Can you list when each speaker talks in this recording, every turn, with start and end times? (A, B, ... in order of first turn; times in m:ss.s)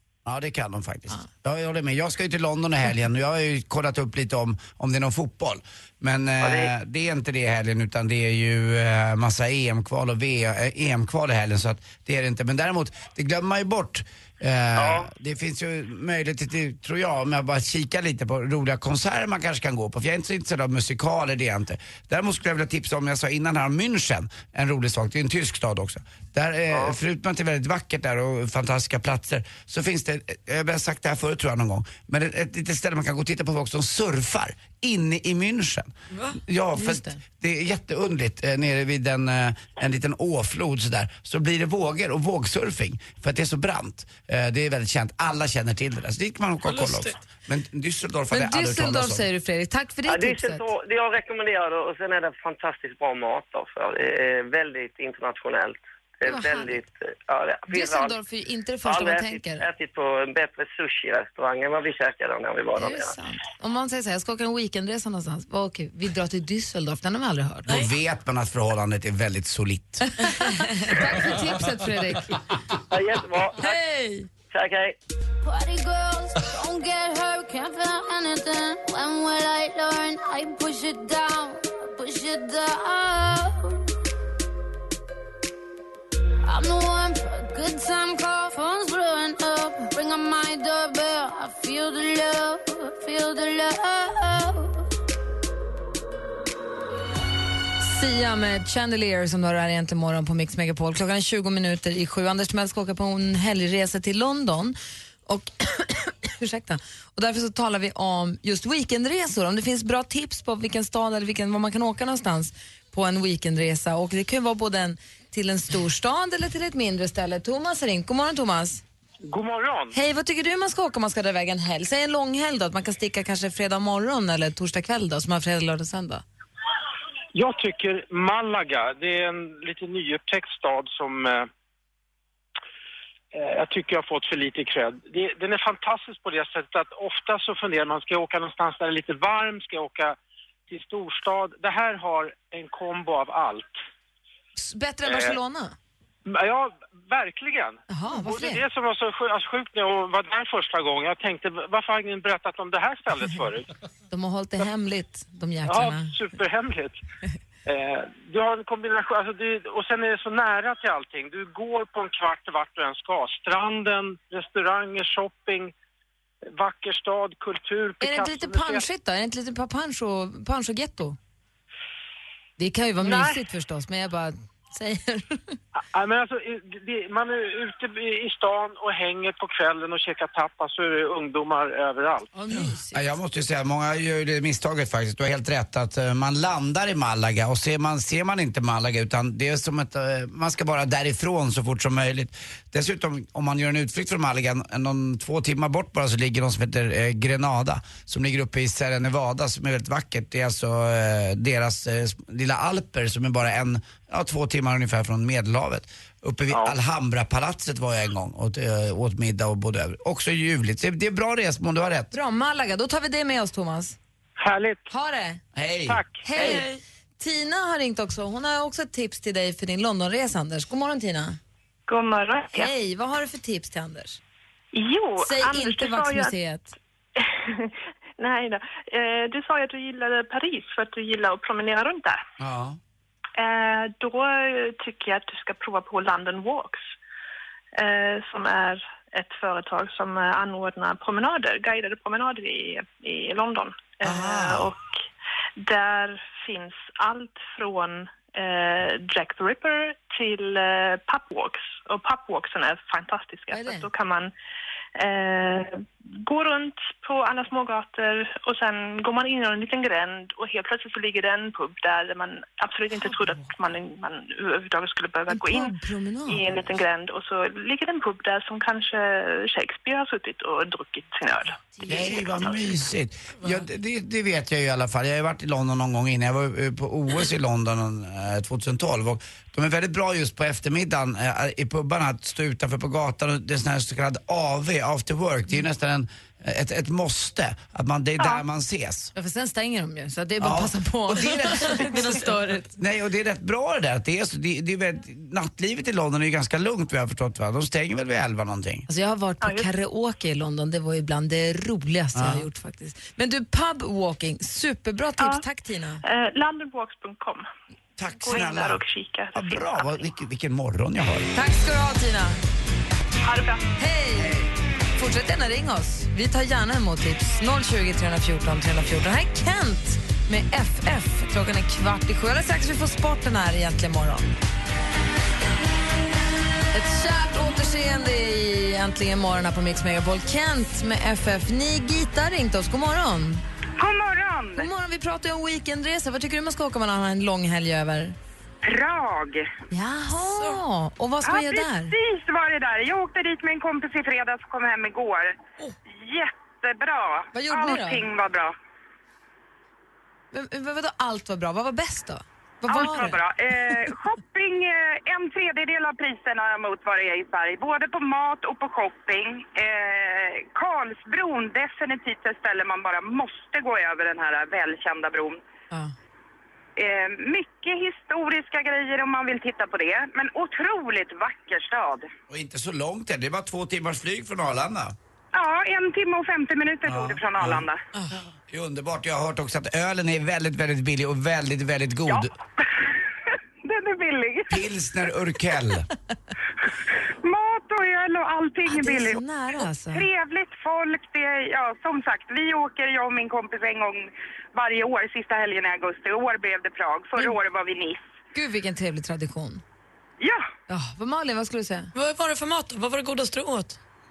0:00.3-0:49.3 A
0:06.4-0:06.7 B
0:14.8-0:15.1 B
0:36.8-0:37.2 C
0:46.7-0:47.2 D
0:48.3-0:50.6 C
0:50.1-0:58.2 B
0:56.2-0:56.8 C
0:57.7-0:59.6 C
0:58.8-1:03.1 B
1:02.8-1:07.7 C
1:07.7-1:10.2 A
1:10.1-1:12.4 C
1:12.9-1:13.6 B
1:13.6-1:14.3 C
1:14.5-1:15.0 B
1:15.4-1:23.8 E
1:26.4-1:34.8 E
1:37.8-1:44.8 C
1:45.3-1:58.8 C
1:59.3-2:00.0 F
1:59.9-2:06.2 C
2:07.3-2:11.5 F
2:13.3-2:20.2 F
2:20.7-2:23.8 F
2:24.6-2:25.8 C
2:25.1-2:25.4 F
2:26.3-2:33.7 F
2:27.9-2:28.6 C
2:34.1-2:36.2 C
2:35.7-2:37.0 F
2:37.7-2:45.7 F
2:46.5-2:48.9 F
2:48.0-2:51.2 C
2:52.6-2:55.6 C
2:53.0-2:53.4 F
2:55.9-3:02.3 F
3:02.3-3:03.2 C
3:02.5-3:32.1 A
3:32.1-3:34.0 C
3:34.4-3:34.9 F
3:34.9-3:35.4 C
3:35.6-3:36.6 A
3:35.9-3:36.3 F
3:36.2-3:41.4 C
3:36.4-3:36.8 D
3:41.9-3:42.7 G
3:42.6-3:44.2 C
3:44.7-3:46.4 G
3:45.2-3:46.8 C
3:47.2-3:52.2 G
3:52.4-3:52.8 A
3:53.4-3:56.9 G
3:57.8-4:05.0 G
4:04.0-4:04.7 A
4:05.6-4:14.3 G
4:13.5-4:13.9 C
4:15.0-4:25.8 G
4:23.0-4:23.3 C
4:25.3-4:26.6 C
4:26.3-4:32.5 G
4:31.9-4:49.1 A
4:48.2-4:48.4 G
4:49.2-4:52.7 C
4:50.4-4:52.1 A
4:51.9-4:52.3 D
4:52.8-4:58.9 A
4:58.9-5:06.0 C
4:59.4-4:59.7 G
5:02.2-5:02.5 A
5:05.2-5:05.4 G
5:06.0-5:07.5 G
5:08.0-5:08.8 A
5:08.2-5:10.1 G
5:09.3-5:11.3 A
5:11.4-5:12.4 C
5:13.2-5:13.6 G
5:13.8-5:14.4 C
5:14.2-5:14.5 A
5:15.0-5:24.3 C
5:26.7-5:33.4 C
5:33.8-5:34.7 H
5:34.6-5:38.2 C
5:38.6-5:39.5 H
5:39.7-5:42.0 C
5:40.2-5:40.6 D
5:41.2-5:45.4 H
5:46.0-5:48.5 H
5:47.3-5:48.1 C
5:50.3-5:53.8 C
5:52.7-6:05.4 H
6:06.8-6:12.1 H
6:12.3-6:15.0 A
6:15.3-6:17.8 H
6:16.9-6:17.7 A
6:18.5-6:22.3 A
6:22.1-6:22.9 H
6:23.6-6:24.6 H
6:24.5-6:25.9 A
6:27.2-6:38.0 H
6:28.7-6:30.1 C
6:38.3-6:39.6 C
6:40.2-6:40.5 H
6:40.7-6:41.9 C
6:41.9-6:43.8 D